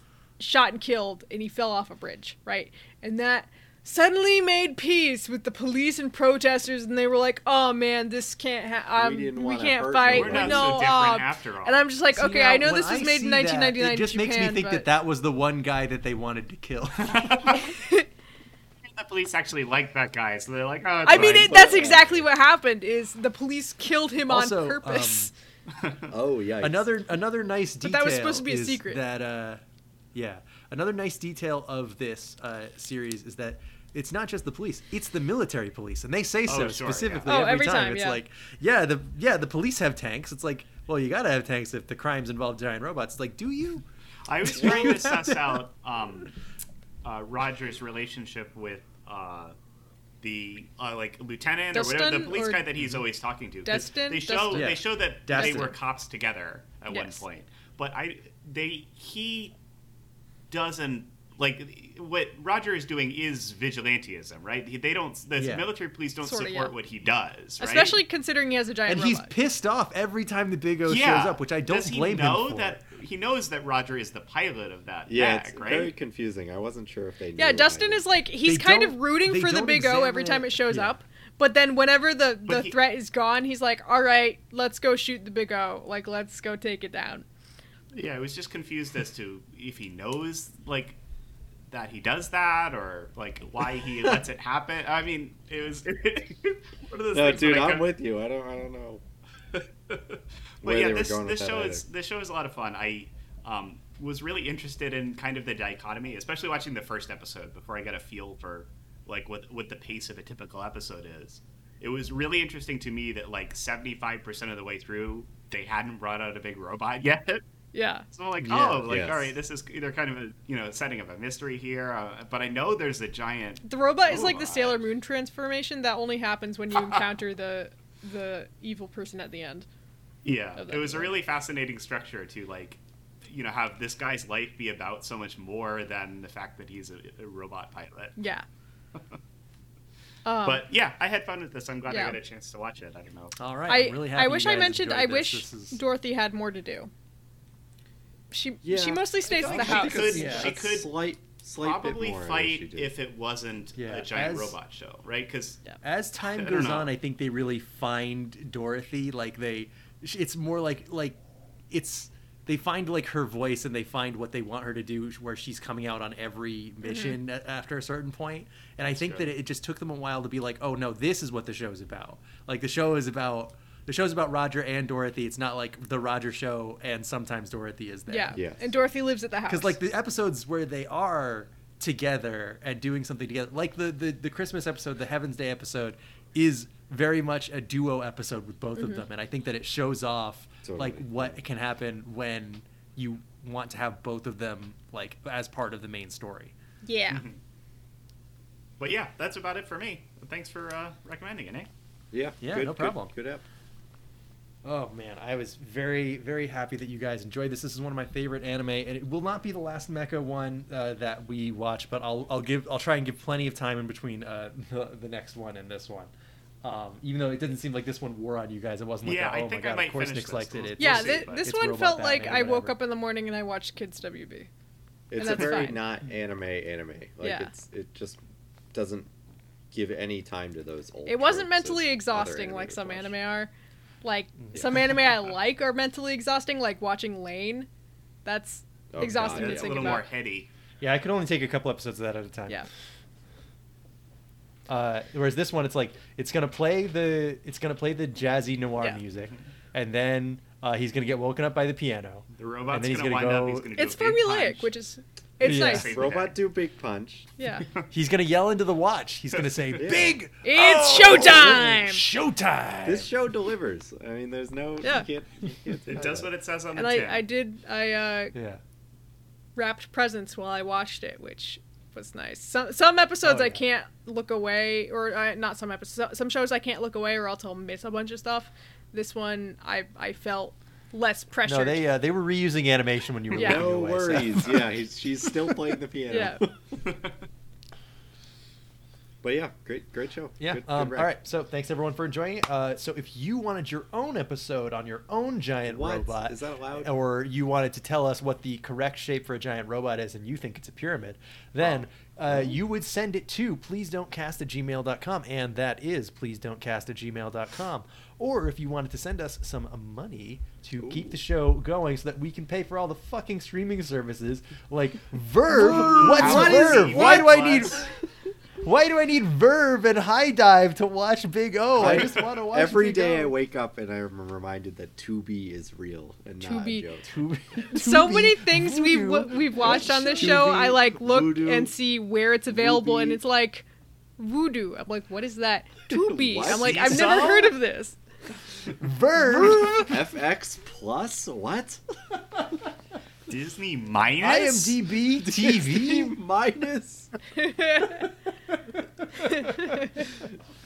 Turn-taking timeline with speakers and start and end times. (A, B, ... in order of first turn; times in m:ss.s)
0:00.4-0:14.9 A
0:09.0-0:10.9 B
0:10.1-0:11.9 C
0:12.1-0:17.5 D
0:17.0-0:17.7 C
0:17.6-0:18.1 A
0:18.9-0:21.9 C
0:21.0-0:25.3 A
0:21.1-0:22.3 B
0:24.3-0:25.3 D
0:26.1-0:26.9 B
0:26.6-0:29.6 D
0:27.8-0:29.0 A
0:30.1-0:43.8 D
0:36.5-0:37.5 C
0:37.3-0:38.2 A
0:44.3-0:46.3 C
0:44.4-0:45.6 D
0:47.0-0:49.6 C
0:50.2-0:59.6 C
0:51.7-0:52.6 A
0:53.7-0:54.7 A
0:54.5-0:55.7 D
0:55.4-0:55.7 A
0:56.9-0:57.2 A
1:00.5-1:08.0 C
1:05.4-1:05.7 D
1:06.2-1:06.7 A
1:07.6-1:09.3 A
1:08.9-1:12.8 D
1:10.9-1:15.9 C
1:15.1-1:18.0 B
1:17.4-1:27.3 A
1:18.4-1:21.0 D
1:22.5-1:22.8 C
1:27.9-1:31.0 C
1:31.7-1:37.9 C
1:37.1-1:39.0 B
1:39.5-1:57.4 C
1:40.6-1:41.8 B
1:57.7-1:58.0 A
1:58.1-2:04.8 C
1:58.4-1:58.8 D
1:58.8-1:59.4 B
2:03.6-2:09.7 A
2:06.8-2:07.0 C
2:10.2-2:18.2 C
2:10.6-2:11.1 A
2:18.2-2:18.4 A
2:20.2-2:20.6 A
2:20.4-2:23.4 C
2:21.9-2:22.2 A
2:23.4-2:25.8 D
2:23.7-2:26.9 A
2:28.3-2:30.4 A
2:28.6-2:32.9 B
2:29.3-2:31.0 C
2:30.1-2:30.5 D
2:31.6-2:35.6 C
2:33.8-2:34.6 D
2:35.8-2:41.2 D
2:36.2-2:36.9 C
2:41.7-2:58.4 D
2:46.8-2:47.1 A
2:48.9-2:49.3 C
2:58.1-2:59.8 A
2:58.3-2:58.7 B
2:59.5-3:16.5 D
3:08.8-3:09.0 A
3:10.6-3:11.4 B
3:16.8-3:17.2 A
3:17.1-3:17.4 C
3:18.8-3:21.7 C
3:22.1-3:23.4 B
3:22.4-3:23.1 D
3:24.6-3:36.1 D
3:36.6-3:42.8 D
3:39.0-3:41.5 C
3:40.8-3:44.5 A
3:45.1-3:48.2 B
3:45.2-3:45.8 A
3:47.2-3:47.5 A
3:48.7-3:49.1 B
3:49.7-3:53.1 B
3:51.1-3:53.5 A
3:54.0-3:57.7 A
3:54.4-3:54.7 D
3:58.2-4:00.1 A
3:58.9-4:00.0 B
3:59.2-4:00.5 C
4:00.8-4:02.6 D
4:04.7-4:13.7 D
4:12.3-4:14.7 C
4:13.8-4:16.0 A
4:15.4-4:16.4 C
4:15.4-4:16.0 D
4:15.8-4:17.3 B
4:17.4-4:17.7 A
4:17.9-4:23.1 D
4:19.4-4:19.8 C
4:19.8-4:20.2 B
4:20.4-4:22.0 A
4:21.1-4:21.6 B
4:22.8-4:26.3 B
4:24.8-4:25.1 A
4:25.9-4:27.3 C
4:26.8-4:28.4 A
4:28.3-4:28.6 D
4:29.6-4:41.8 A
4:33.2-4:33.6 D
4:41.4-4:44.6 D
4:43.3-4:43.7 A
4:43.3-4:46.5 B
4:46.1-4:46.4 A
4:46.8-4:47.1 C
4:49.2-4:51.1 B
4:50.4-5:17.8 D
4:55.7-4:56.9 B
5:01.6-5:02.6 B
5:10.8-5:11.2 B
5:15.5-5:17.6 B
5:15.7-5:17.9 C
5:18.6-5:23.4 D
5:21.8-5:27.0 B
5:26.4-5:26.9 A
5:27.0-5:30.5 D
5:27.7-5:33.7 A
5:29.6-5:31.7 B
5:32.5-5:33.2 B
5:34.2-5:38.0 A
5:35.9-5:37.3 B
5:36.4-5:37.5 C
5:38.8-5:40.0 D
5:39.3-5:41.8 B
5:43.3-5:44.8 C
5:44.2-5:46.1 D
5:45.2-5:47.1 B
5:47.3-5:48.1 A
5:49.2-5:49.7 D
5:49.4-5:50.0 A